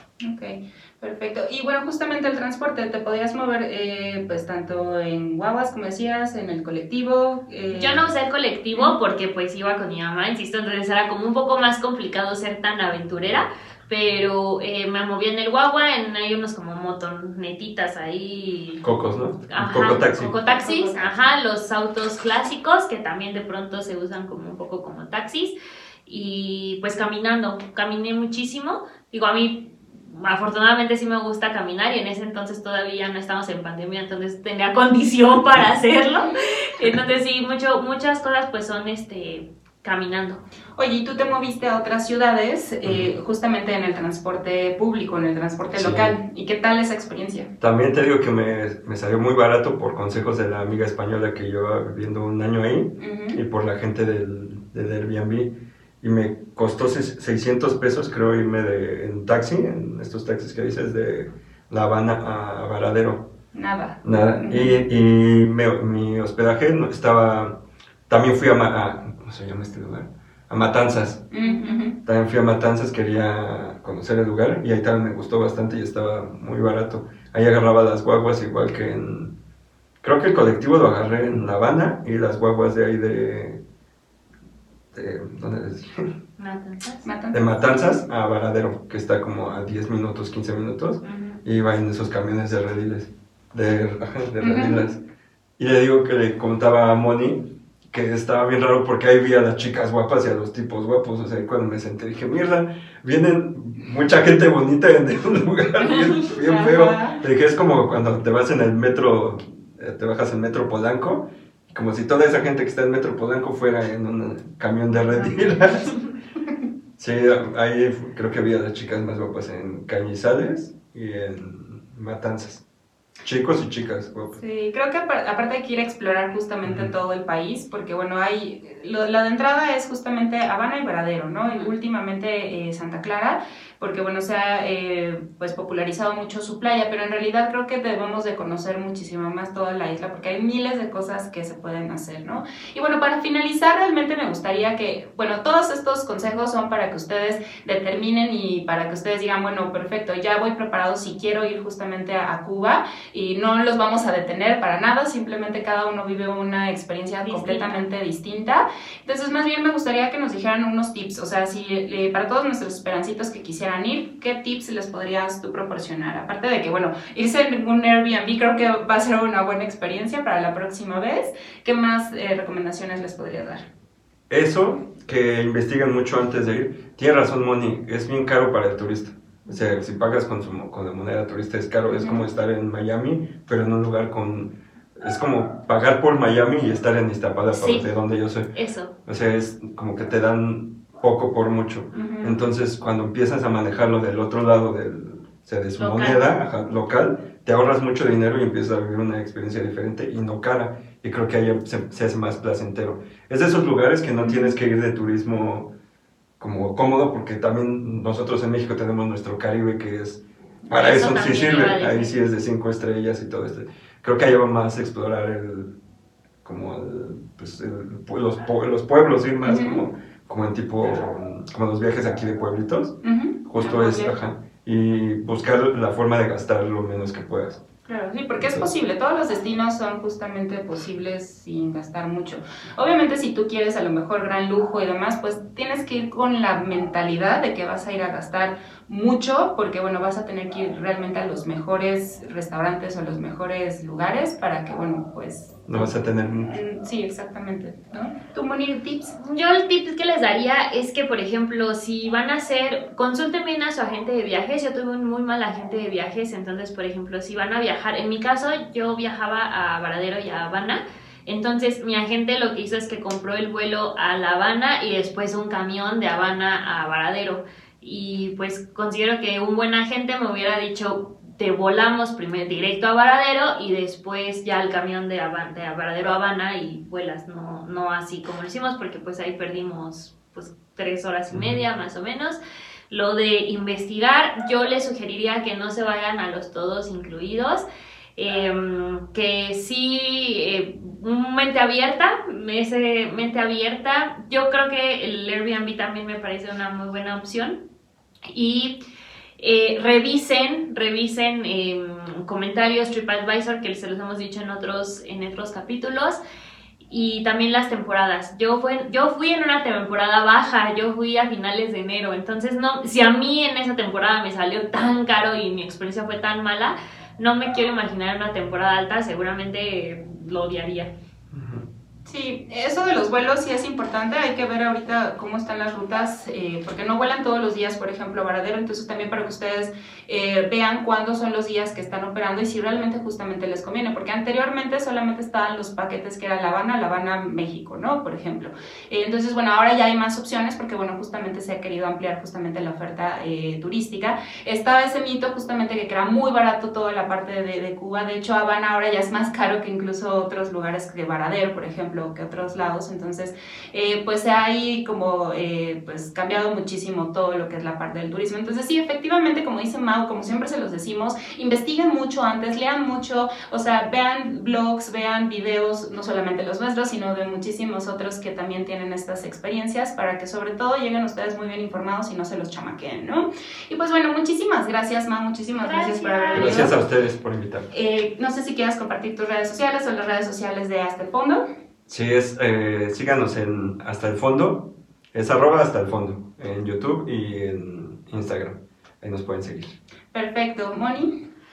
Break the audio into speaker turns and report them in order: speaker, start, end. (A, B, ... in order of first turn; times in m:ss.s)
0:00.2-0:08.0 A
0:07.7-0:18.8 B
0:18.8-0:20.3 C
0:19.5-0:25.5 B
0:20.2-0:21.3 A
0:26.0-0:40.4 B
0:40.8-0:47.5 A
0:42.8-0:43.1 C
0:45.7-0:46.2 C
0:47.6-1:03.3 C
0:53.0-0:53.4 A
1:03.5-1:04.8 A
1:04.0-1:11.2 C
1:11.3-1:12.0 A
1:11.4-1:11.9 B
1:12.0-1:19.3 C
1:20.0-1:23.6 C
1:24.9-1:26.1 C
1:26.4-1:27.0 B
1:27.0-1:28.0 A
1:27.3-1:35.0 C
1:31.0-1:31.4 B
1:34.4-1:34.9 A
1:35.6-1:55.9 C
1:46.3-1:47.2 A
1:57.0-2:02.6 C
2:03.2-2:04.4 C
2:04.3-2:53.6 A
2:06.6-2:06.9 C
2:11.4-2:11.7 B
2:37.2-2:37.8 B
2:54.3-3:08.5 C
3:01.9-3:02.2 A
3:07.5-3:07.8 B
3:08.5-3:08.9 B
3:09.0-3:25.7 C
3:11.9-3:12.4 A
3:15.8-3:16.3 B
3:24.2-3:24.5 A
3:26.4-3:35.7 C
3:30.7-3:32.1 B
3:36.4-3:47.6 C
3:39.4-3:39.8 A
3:43.0-3:44.2 A
3:47.9-4:09.1 A
3:48.4-3:48.7 C
4:05.7-4:06.5 C
4:09.2-4:42.4 B
4:41.3-4:41.6 C
4:42.9-4:47.6 B
4:48.2-4:57.6 B
4:58.3-4:58.8 B
4:59.4-5:06.2 B
5:06.8-5:20.9 B
5:21.3-5:21.7 C
5:22.0-6:16.7 A
6:15.6-6:16.7 B
6:16.3-6:17.7 C
6:17.7-6:21.4 A
6:21.9-6:29.7 C
6:30.1-6:31.1 A